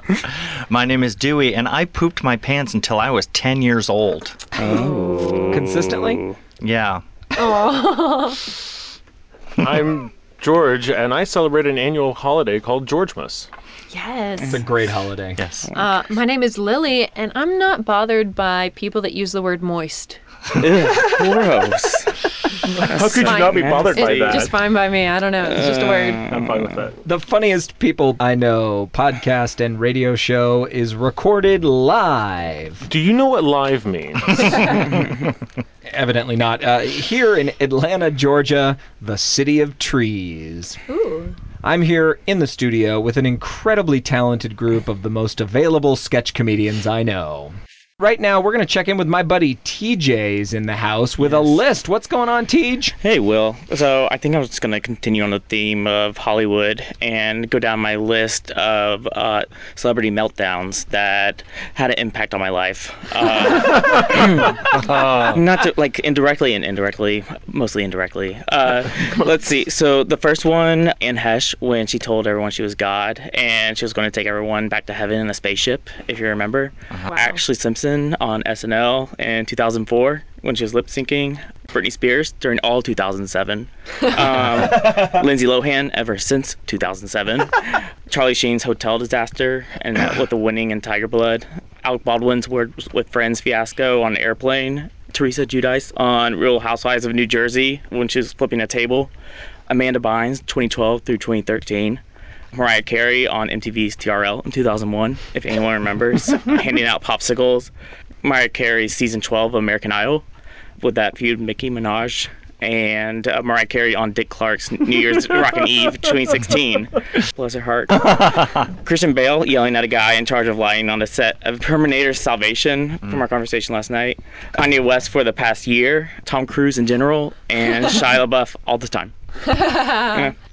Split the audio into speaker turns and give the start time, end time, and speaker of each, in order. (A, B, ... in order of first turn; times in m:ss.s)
0:00.3-0:04.5 A
0:04.6-0:06.4 B
0:04.6-0:05.4 C
0:05.5-0:06.2 D
0:06.6-0:07.0 A
0:07.3-0:08.4 C
0:09.6-0:13.5 E
0:13.9-0:14.6 C
0:14.5-0:15.4 D
0:15.4-0:15.7 A
0:15.7-0:20.2 C
0:20.6-0:22.2 B
0:22.8-0:24.5 E
0:22.8-0:24.5 B
0:23.2-0:26.3 C
0:25.4-0:26.9 B
0:26.2-0:27.0 E
0:27.0-0:32.9 D
0:32.9-0:35.0 E
0:35.9-0:40.8 D
0:40.9-0:41.3 C
0:41.6-0:52.9 D
0:51.2-0:51.6 B
0:53.0-1:39.1 B
1:04.8-1:05.4 A
1:17.1-1:17.4 C
1:24.4-1:24.8 A
1:39.7-1:42.0 B
1:42.5-1:47.7 B
1:48.2-1:50.2 B
1:50.8-2:09.1 B
1:58.1-1:58.4 A
2:09.5-2:10.2 C
2:09.9-2:10.3 B